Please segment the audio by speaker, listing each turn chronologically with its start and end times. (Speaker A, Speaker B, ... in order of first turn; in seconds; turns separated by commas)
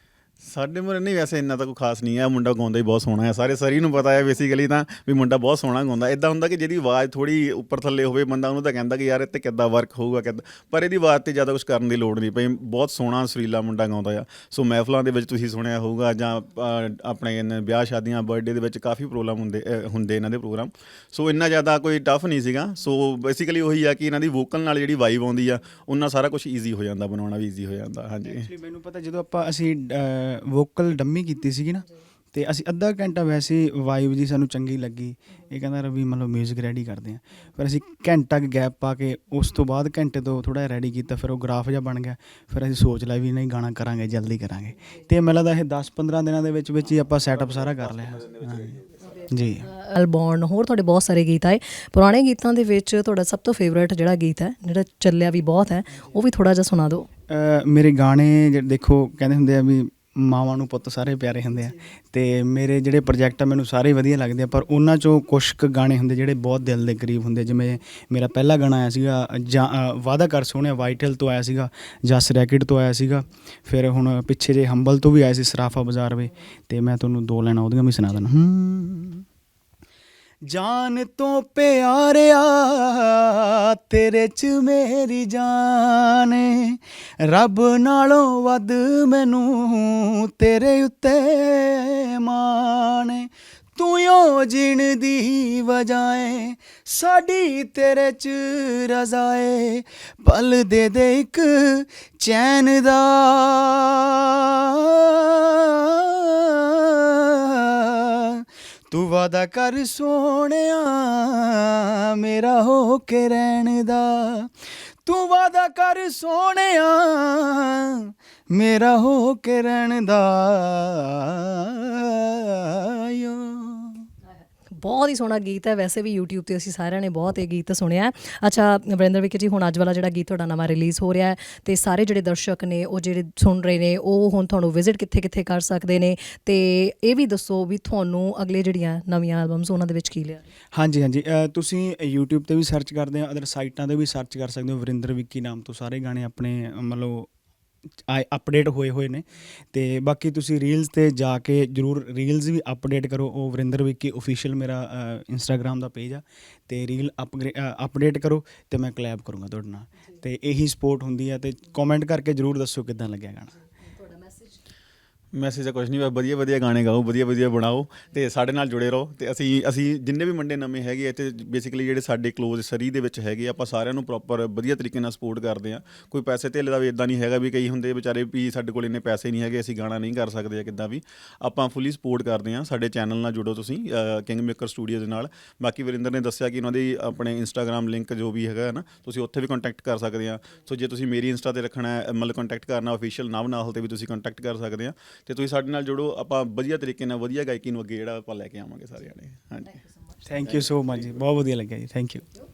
Speaker A: 0.4-28.5, Speaker B: 28.2-49.7, Speaker A: 48.4-48.8, Speaker C: 49.6-57.1, Speaker B: 57.3-79.2, Speaker B: 80.5-114.5, Speaker B: 115.1-124.1, Speaker C: 124.8-140.4, Speaker B: 140.7-147.3, Speaker B: 148.1-163.6, Speaker C: 163.8-164.6, Speaker A: 165.3-199.8, Speaker B: 200.2-202.3